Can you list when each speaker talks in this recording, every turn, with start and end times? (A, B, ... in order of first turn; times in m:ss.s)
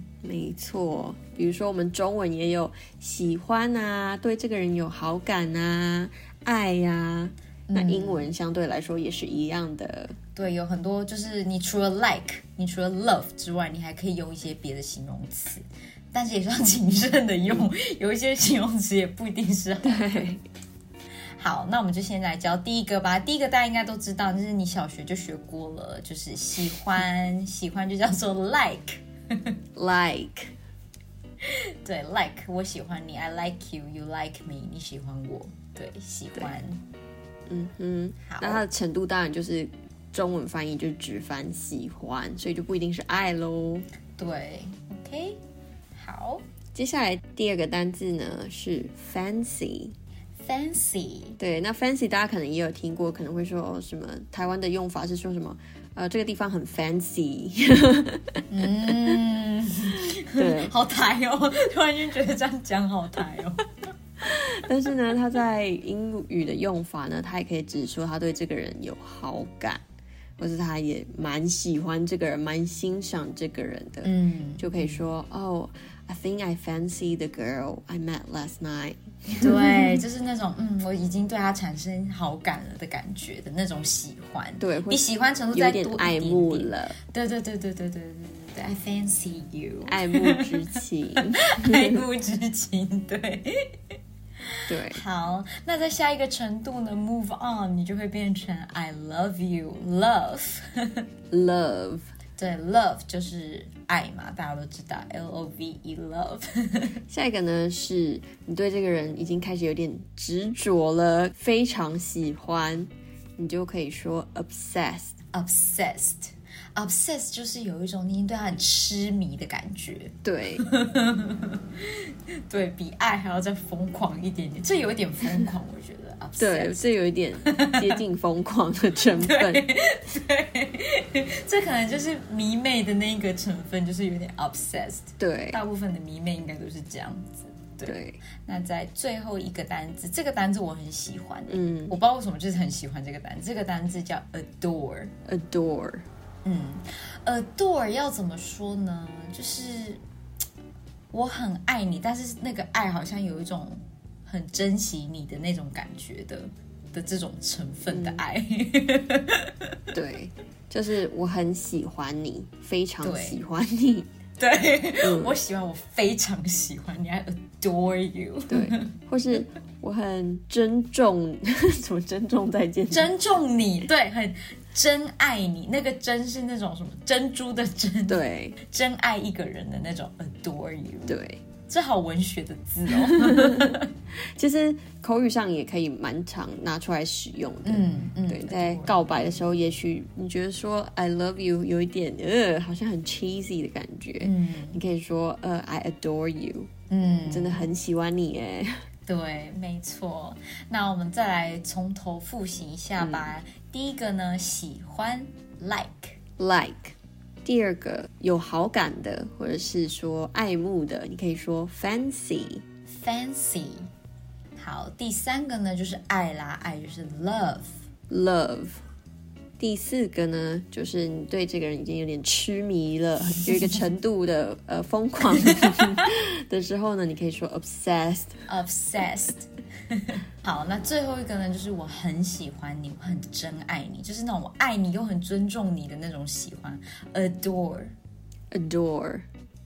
0:00.2-0:10.2 A
0:07.7-0:08.3 B
0:10.3-0:20.1 B
0:19.8-0:20.4 A
0:21.4-0:29.0 B
0:29.8-0:30.5 A
0:31.4-0:36.8 B
0:37.5-0:43.9 A
0:38.2-0:38.6 B
0:44.2-0:45.4 B
0:46.0-0:46.4 B
0:46.7-0:49.9 A
0:50.4-0:51.4 B
0:51.4-0:58.4 A
0:58.5-1:03.6 B
1:00.4-1:00.7 A
1:04.2-1:09.8 A
1:10.4-1:20.0 A
1:14.0-1:15.0 B
1:19.4-1:30.5 B
1:24.6-1:27.0 A
1:29.9-1:32.0 A
1:31.4-1:33.9 B
1:34.7-1:35.0 A
1:34.8-1:41.0 B
1:41.3-1:42.1 A
1:42.4-1:47.0 B
1:47.1-1:55.2 A
1:55.3-2:06.8 B
2:00.2-2:00.6 A
2:06.4-2:09.6 A
2:07.4-2:07.9 B
2:09.2-2:25.1 B
2:15.2-2:15.6 A
2:17.8-2:18.2 A
2:21.5-2:22.0 A
2:25.3-2:26.0 A
2:26.4-2:30.0 B
2:31.1-2:39.5 B
2:37.9-2:38.2 A
2:39.9-2:44.1 A
2:43.0-2:43.4 B
2:44.4-2:48.9 B
2:45.0-2:45.4 A
2:48.5-2:53.2 A
2:52.9-3:03.9 B
2:58.1-2:58.6 A
3:01.1-3:01.4 A
3:03.1-3:03.7 A
3:04.4-3:16.7 A
3:07.6-3:09.4 B
3:14.2-3:14.8 B
3:16.9-3:17.7 B
3:17.3-3:18.8 A
3:19.1-3:26.2 B
3:26.4-3:32.6 A
3:32.9-3:33.9 B
3:34.6-3:37.8 B
3:38.1-3:38.8 A
3:39.6-3:48.4 A
3:48.5-3:57.9 B
3:58.5-3:59.3 A